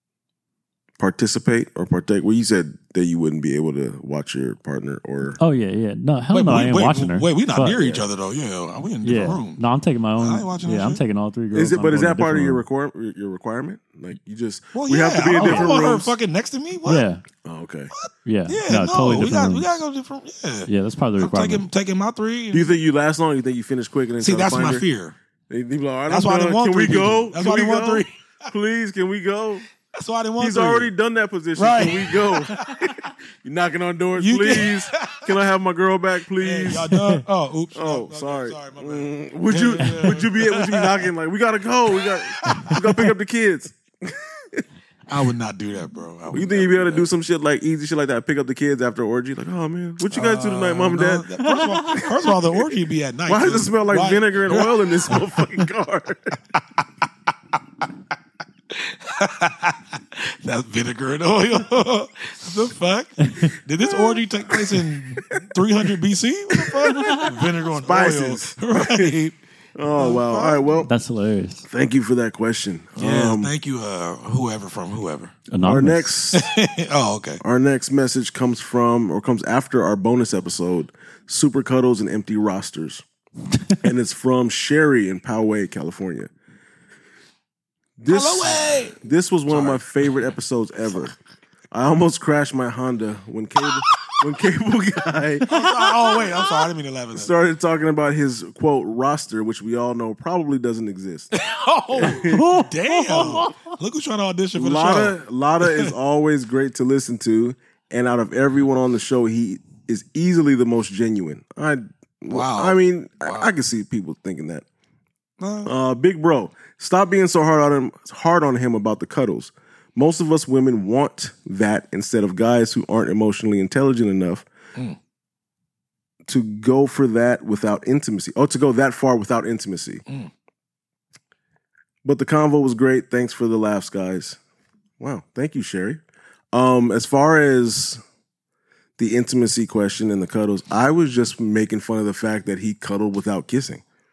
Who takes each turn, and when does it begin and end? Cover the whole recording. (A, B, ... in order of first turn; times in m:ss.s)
0:01.0-0:05.4 A
0:05.4-0:07.8 B
0:06.3-0:09.6 C
0:07.7-0:08.0 A
0:09.0-0:12.6 B
0:10.2-0:11.0 C
0:11.5-0:16.1 A
0:14.7-0:17.0 C
0:15.3-0:15.8 B
0:16.8-0:17.2 B
0:17.4-0:17.9 A
0:18.0-0:22.7 C
0:18.2-0:19.7 B
0:20.7-0:21.7 B
0:22.5-0:24.8 A
0:24.2-0:25.2 C
0:25.5-0:29.6 A
0:26.1-0:28.1 C
0:29.9-0:30.9 C
0:30.4-0:37.0 A
0:31.6-0:33.0 C
0:34.2-0:35.3 C
0:36.4-0:41.1 C
0:37.7-0:44.6 A
0:42.0-0:43.1 C
0:45.1-0:47.1 C
0:46.3-0:51.3 A
0:50.1-0:55.4 C
0:51.6-0:52.1 B
0:52.0-0:52.6 A
0:53.2-0:56.4 A
0:58.7-1:09.3 C
1:03.2-1:03.5 B
1:03.9-1:04.8 A
1:06.6-1:09.2 A
1:07.0-1:07.2 B
1:09.8-1:10.9 A
1:09.9-1:10.8 C
1:10.8-1:11.6 B
1:11.7-1:13.5 A
1:13.0-1:15.4 C
1:15.5-1:16.1 B
1:15.6-1:16.4 A
1:16.3-1:17.4 C
1:17.4-1:23.0 A
1:23.8-1:26.3 A
1:28.0-1:31.1 A
1:28.1-1:29.8 C
1:31.7-1:41.3 A
1:35.5-1:37.3 C
1:41.3-1:45.9 C
1:41.9-1:42.5 A
1:42.0-1:43.7 B
1:44.5-1:54.6 A
1:52.3-1:53.5 C
1:55.4-1:55.7 C
1:55.6-2:04.4 A
2:06.3-2:10.0 A
2:12.0-2:14.4 A
2:15.0-2:18.0 A
2:19.0-2:23.8 A